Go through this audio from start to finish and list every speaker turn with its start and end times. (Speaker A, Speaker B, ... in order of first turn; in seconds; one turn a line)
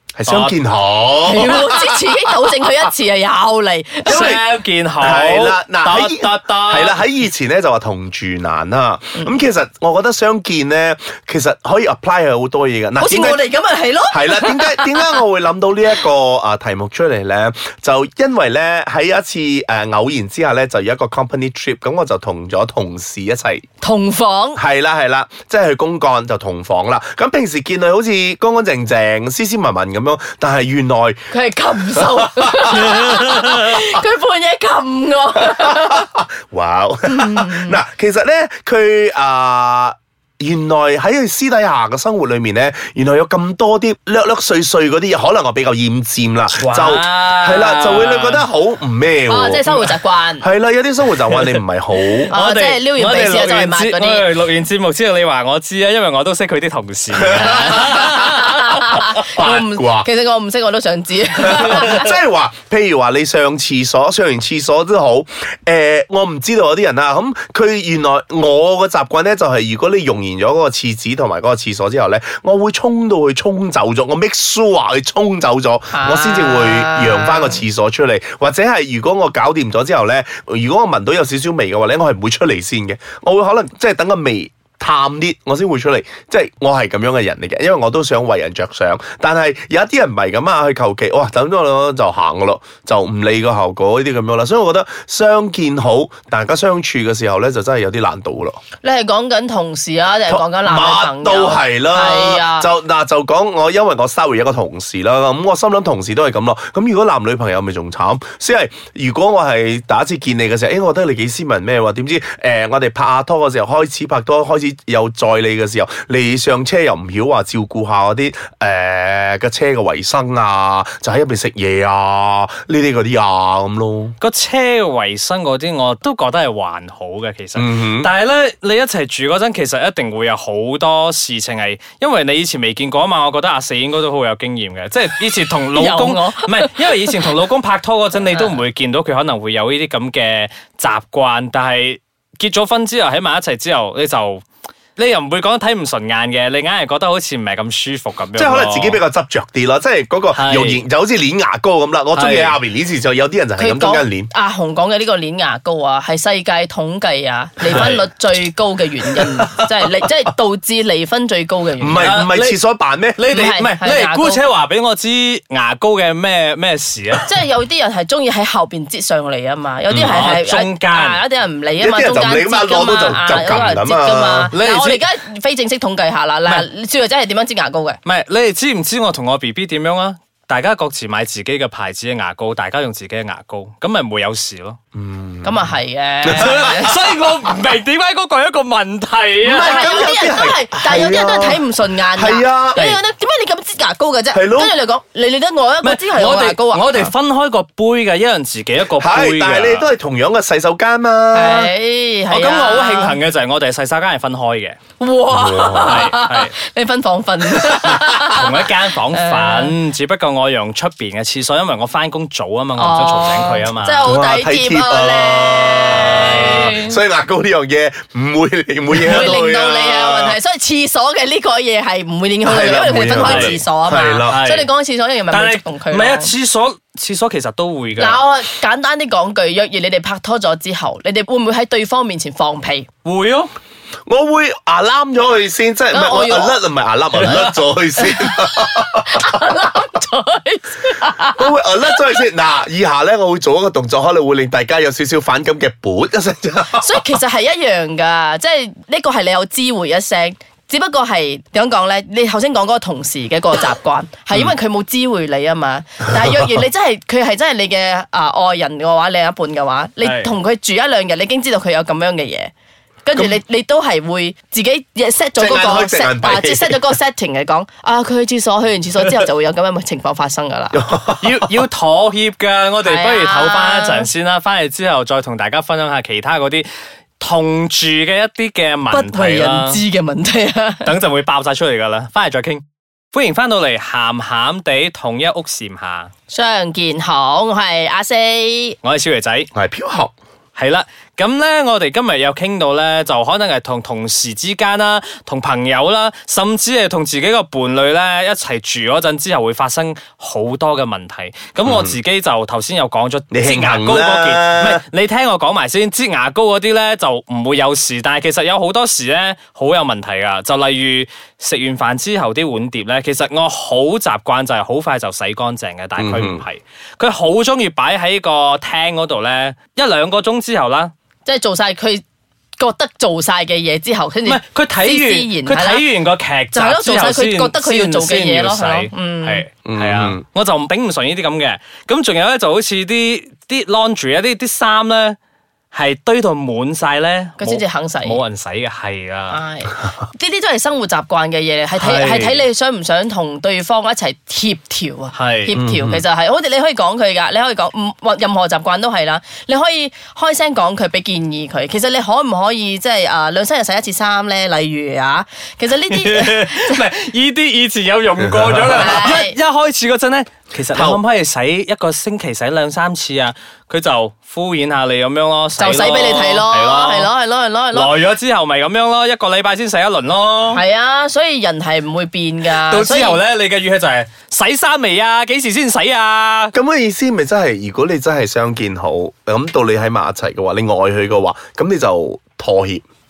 Speaker A: 0.2-2.2
Speaker B: 0.2-0.5
Speaker C: 1.2-4.4
Speaker A: 4.0-4.4
Speaker B: 4.0-7.0
Speaker A: 5.0-13.4
Speaker C: 13.0-15.2
Speaker A: 14.1-23.7
Speaker C: 23.8-24.6
Speaker A: 24.6-31.2
Speaker C: 31.3-36.0
Speaker A: 31.8-33.3
Speaker B: 32.9-33.5
Speaker A: 35.4-52.3
Speaker C: 37.1-37.8
Speaker B: 46.6-48.5
Speaker C: 49.3-50.5
Speaker B: 52.3-59.0
Speaker C: 52.3-54.3
Speaker A: 57.1-58.2
Speaker C: 57.8-62.1
Speaker A: 59.2-60.1
Speaker A: 61.4-98.6
Speaker C: 75.9-77.6
Speaker C: 98.8-102.7
Speaker A: 100.3-124.2
Speaker B: 124.2-144.4
Speaker A: 127.5-128.1
Speaker C: 135.7-136.7
Speaker B: 144.9-149.0
Speaker A: 148.3-154.3
Speaker B: 150.3-150.8
Speaker B: 152.1-152.6
Speaker C: 153.6-162.2
Speaker B: 157.7-158.0
Speaker A: 159.1-159.9
Speaker A: 161.8-163.2
Speaker B: 162.0-167.3
Speaker C: 163.3-164.4
Speaker C: 167.2-178.0
Speaker A: 169.9-170.2
Speaker B: 170.0-171.2
Speaker A: 171.8-174.5
Speaker B: 174.5-175.0
Speaker B: 178.0-184.8
Speaker A: 184.9-185.7
Speaker C: 185.4-187.0
Speaker A: 186.2-186.9
Speaker B: 186.3-190.1
Speaker A: 189.4-192.8
Speaker C: 189.5-197.1
Speaker A: 194.3-194.7
Speaker B: 195.8-199.9
Speaker A: 199.0-201.7
Speaker C: 201.3-203.2
Speaker B: 202.3-204.8
Speaker C: 205.0-209.7
Speaker A: 205.3-206.1
Speaker B: 205.8-206.5
Speaker B: 207.9-214.1
Speaker C: 212.8-217.0
Speaker A: 214.0-220.4
Speaker B: 216.0-216.8
Speaker C: 219.0-226.3
Speaker B: 219.0-219.3
Speaker A: 222.4-224.4
Speaker B: 222.9-223.5
Speaker B: 224.3-224.7
Speaker B: 225.3-228.2
Speaker C: 228.0-232.9
Speaker B: 233.0-233.5
Speaker A: 234.1-239.8
Speaker C: 235.9-236.6
Speaker C: 238.0-242.2
Speaker A: 241.1-247.1
Speaker C: 246.7-262.5
Speaker B: 260.0-260.3
Speaker C: 263.0-270.8
Speaker A: 265.4-266.9
Speaker A: 270.7-271.5
Speaker B: 271.2-276.7
Speaker C: 272.8-274.1
Speaker B: 277.2-279.8
Speaker C: 278.9-280.9
Speaker B: 280.8-286.1
Speaker C: 286.3-288.8
Speaker B: 288.8-289.5
Speaker A: 289.5-290.1
Speaker B: 290.6-320.9
Speaker A: 301.6-301.9
Speaker A: 303.3-304.8
Speaker A: 316.0-316.4
Speaker C: 321.2-322.0
Speaker C: 322.6-325.9
Speaker B: 324.2-335.2
Speaker C: 326.5-329.4
Speaker A: 329.6-330.2
Speaker B: 335.7-339.4
Speaker C: 337.4-338.2
Speaker C: 339.3-356.8
Speaker B: 341.8-342.4
Speaker B: 345.1-345.5
Speaker A: 345.5-346.0
Speaker B: 355.9-367.1
Speaker A: 358.3-359.0
Speaker C: 358.8-359.4
Speaker A: 360.7-361.0
Speaker C: 365.6-367.9
Speaker B: 367.7-370.6
Speaker C: 370.5-373.2
Speaker B: 372.4-376.5
Speaker A: 376.5-382.8